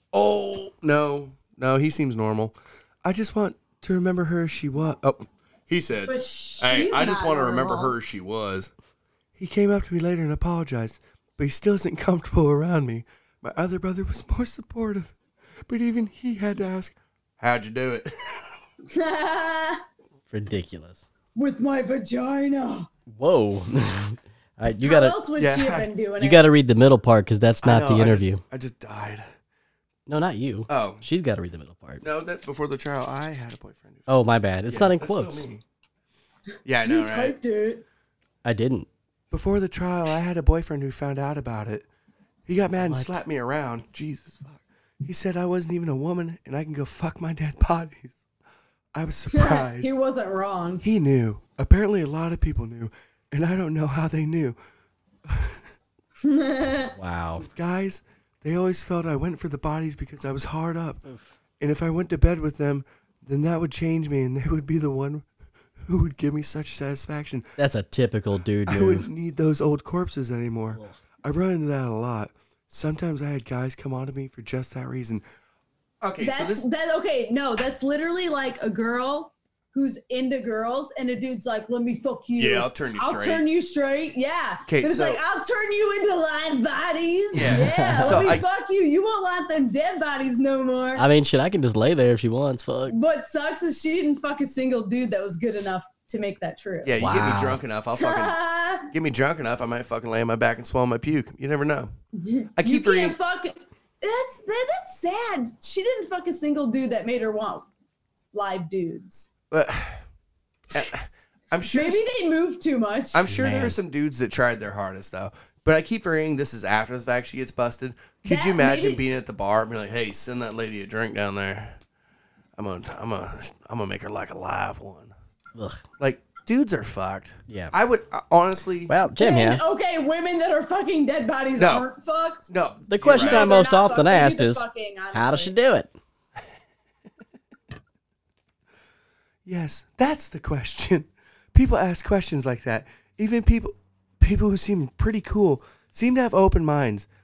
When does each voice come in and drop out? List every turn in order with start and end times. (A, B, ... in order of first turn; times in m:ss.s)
0:00.1-0:08.7 A
0:06.1-0:08.0 B
0:09.4-0:15.1 A
0:15.7-0:18.5 A
0:18.9-0:19.8 B
0:20.3-0:21.0 C
0:21.4-0:22.9 B
0:23.1-0:25.2 C
0:24.8-0:26.5 B
0:25.4-0:25.9 A
0:26.2-0:28.4 C
0:27.6-0:29.3 A
0:30.1-0:32.0 C
0:30.7-0:31.0 A
0:32.0-0:34.1 A
0:34.1-0:35.5 C
0:34.7-0:35.6 A
0:36.6-0:37.4 A
0:36.8-0:37.8 B
0:38.4-0:38.9 C
0:39.3-0:41.9 A
0:42.5-0:48.2 A
0:42.8-0:43.1 C
0:48.9-0:49.9 A
0:49.3-0:50.8 B
0:50.8-0:54.6 A
0:55.3-0:55.6 A
0:56.2-0:57.0 B
0:57.0-0:57.5 C
0:57.4-1:01.0 A
1:01.6-1:05.2 A
1:05.8-1:07.5 A
1:07.6-1:09.1 C
1:08.7-1:15.2 A
1:10.7-1:11.0 C
1:16.0-1:16.6 A
1:16.2-1:31.1 B
1:22.4-1:23.5 A
1:24.7-1:25.2 A
1:27.3-1:28.4 A
1:27.4-1:28.4 C
1:31.0-1:33.0 C
1:32.9-1:37.0 B
1:36.8-1:41.9 A
1:37.0-1:37.6 C
1:38.0-1:38.9 B
1:42.2-1:47.7 B
1:42.6-1:43.2 A
1:48.3-1:49.3 B
1:49.5-1:50.0 A
1:50.7-1:52.0 A
1:51.7-1:53.3 B
1:53.1-2:01.8 A
1:53.3-1:53.8 C
1:58.3-1:59.0 B
2:02.6-2:05.1 A
2:05.6-2:05.8 C
2:06.0-2:08.9 A
2:08.9-2:09.6 C
2:09.2-2:12.5 B
2:11.6-2:11.9 A
2:12.5-2:13.5 A
2:12.9-2:15.9 C
2:13.1-2:15.6 B
2:19.5-2:27.1 A